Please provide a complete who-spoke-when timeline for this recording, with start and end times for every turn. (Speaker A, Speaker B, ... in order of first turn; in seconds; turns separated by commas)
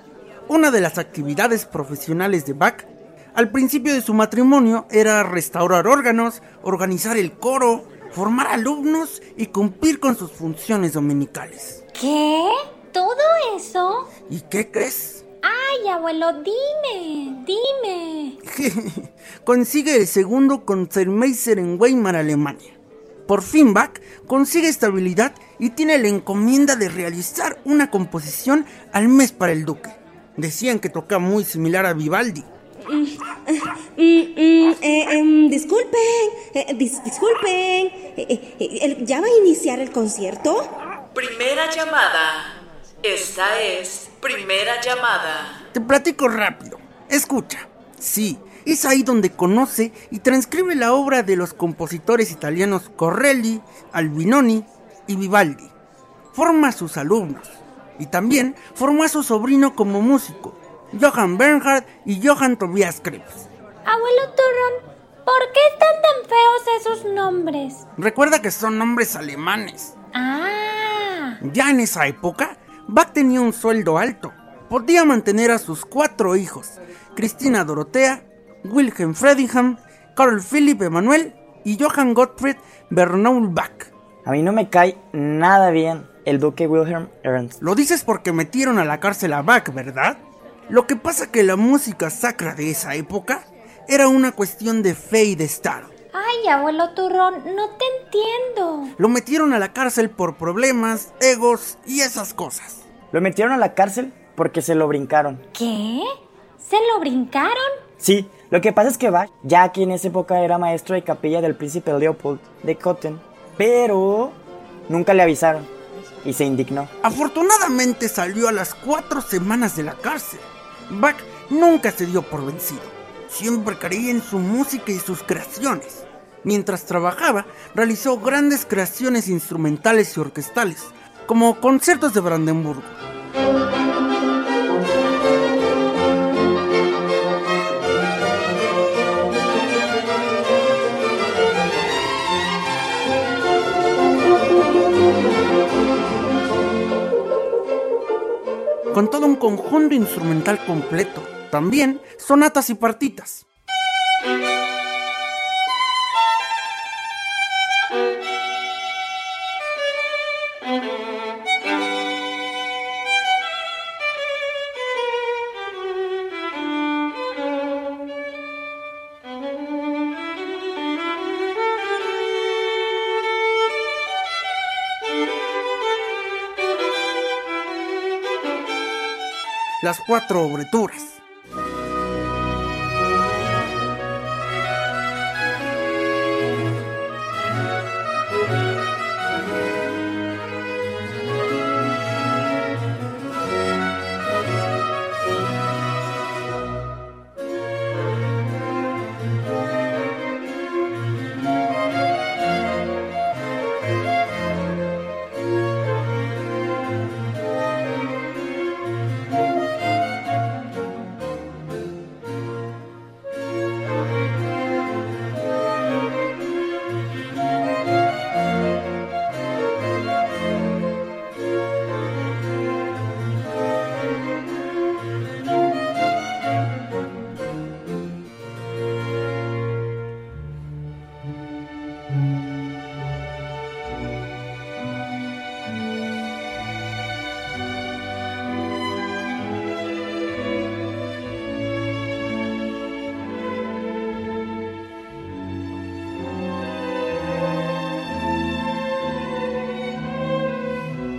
Speaker A: 0.5-11.8, Speaker B: 11.9-14.1, Speaker A: 14.3-15.2, Speaker B: 15.4-18.4, Speaker A: 18.4-22.8, Speaker A: 23.3-32.5, Speaker C: 32.9-40.6, Speaker D: 41.1-45.6, Speaker A: 45.7-55.7, Speaker A: 56.3-63.5, Speaker B: 63.9-67.8, Speaker A: 68.0-69.9, Speaker B: 70.1-71.4, Speaker A: 71.4-83.9, Speaker E: 84.2-87.6, Speaker A: 87.6-95.9, Speaker B: 96.1-98.9, Speaker A: 99.0-102.8, Speaker E: 103.1-105.4, Speaker B: 105.5-107.8, Speaker E: 108.0-115.7, Speaker E: 116.2-116.9, Speaker A: 117.0-133.0, Speaker A: 148.9-153.4, Speaker A: 179.8-181.2